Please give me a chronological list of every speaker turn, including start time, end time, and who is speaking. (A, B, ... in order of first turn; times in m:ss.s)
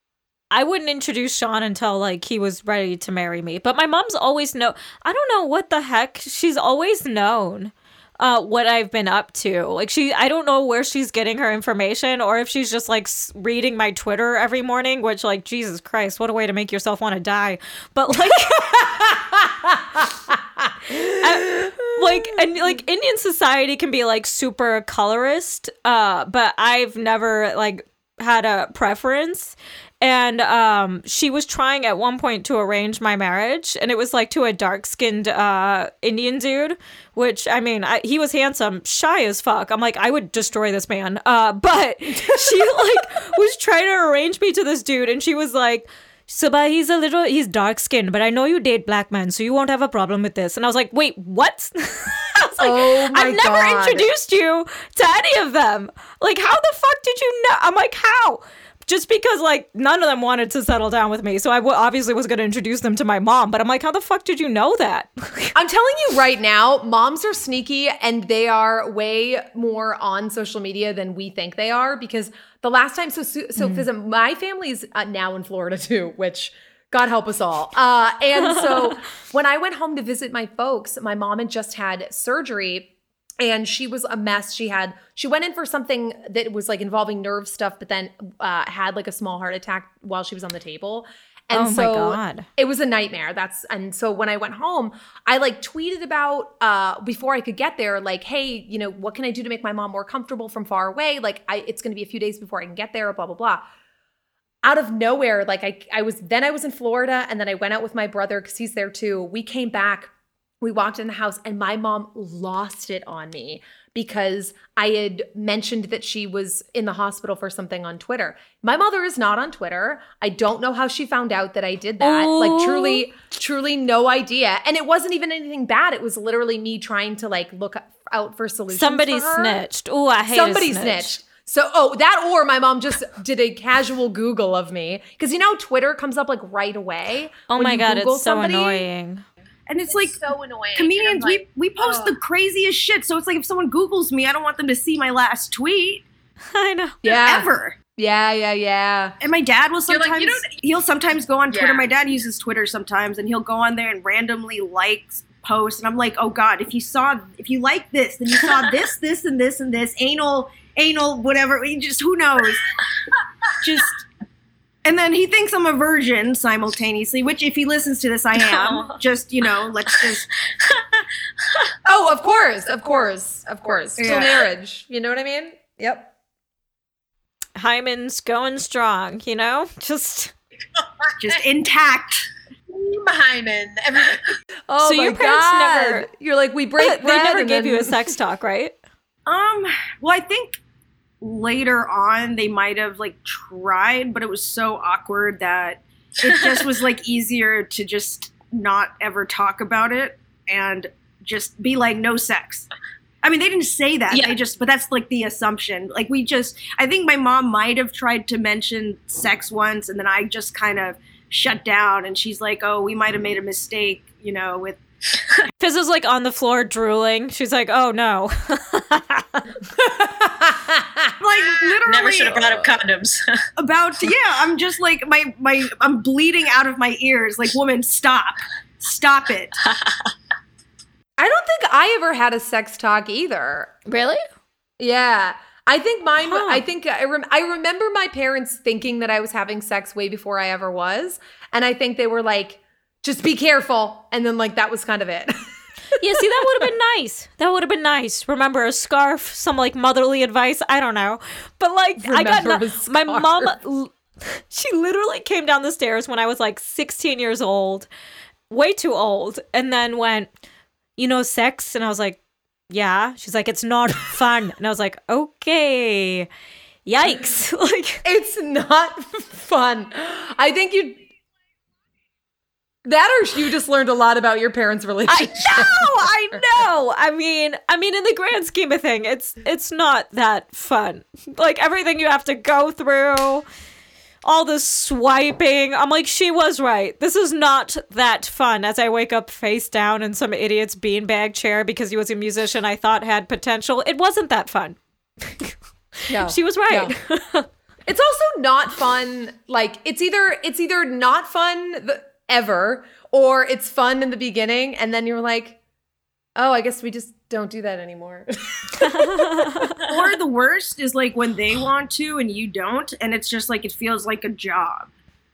0:00.5-0:18.7 A
0:18.5-0:22.8 B
0:21.1-1:05.6 A
0:42.2-0:43.0 B
0:52.6-0:54.1 B
1:05.6-1:43.6 B
1:13.6-1:13.9 A
1:18.4-1:19.0 A
1:31.5-1:32.5 A
1:44.6-2:09.6 B
2:02.0-2:03.0 A
2:08.7-2:11.2 A
2:10.3-2:18.9 B
2:17.5-2:19.2 A
2:19.7-2:20.2 C
2:19.9-2:22.2 D
2:20.8-2:26.1 C
2:26.5-2:27.0 A
2:27.0-2:29.2 B
2:27.1-2:27.8 C
2:29.2-2:42.7 C
2:29.9-2:30.6 D
2:31.5-2:31.9 D
2:43.5-2:44.0 C
2:44.8-2:50.3 C
2:48.5-2:48.9 E
2:51.9-2:56.1 B
2:51.9-2:53.1 D
2:53.7-2:54.4 D
2:54.0-2:54.4 C
2:57.6-3:00.3 A
3:01.2-3:02.3 C
3:02.7-3:04.2 D
3:04.7-3:08.1 B
3:04.8-3:06.1 A
3:06.8-3:08.8 A
3:09.3-3:10.6 C
3:11.2-3:22.7 C
3:23.2-3:34.8 C
3:24.1-3:24.4 E
3:35.6-3:39.4 A
3:39.8-3:41.1 B
3:41.2-3:42.7 C
3:41.8-3:43.3 E
3:43.6-3:49.6 C
3:51.2-3:53.7 B
3:53.9-3:54.2 A
3:54.8-4:05.3 B
3:56.2-3:56.6 A
4:06.0-4:06.7 B
4:06.0-4:17.9 A
4:12.0-4:13.6 B
4:18.5-4:20.3 A
4:21.0-4:26.3 A
4:26.9-4:28.0 A
4:28.0-4:31.0 B
4:32.8-4:36.4 B
4:35.1-4:43.4 A
4:44.2-4:55.6 A
4:56.1-4:57.0 B
4:56.1-4:57.5 A
4:57.9-5:05.6 B
5:06.4-5:09.7 B
5:08.8-5:09.7 A
5:09.8-5:14.9 C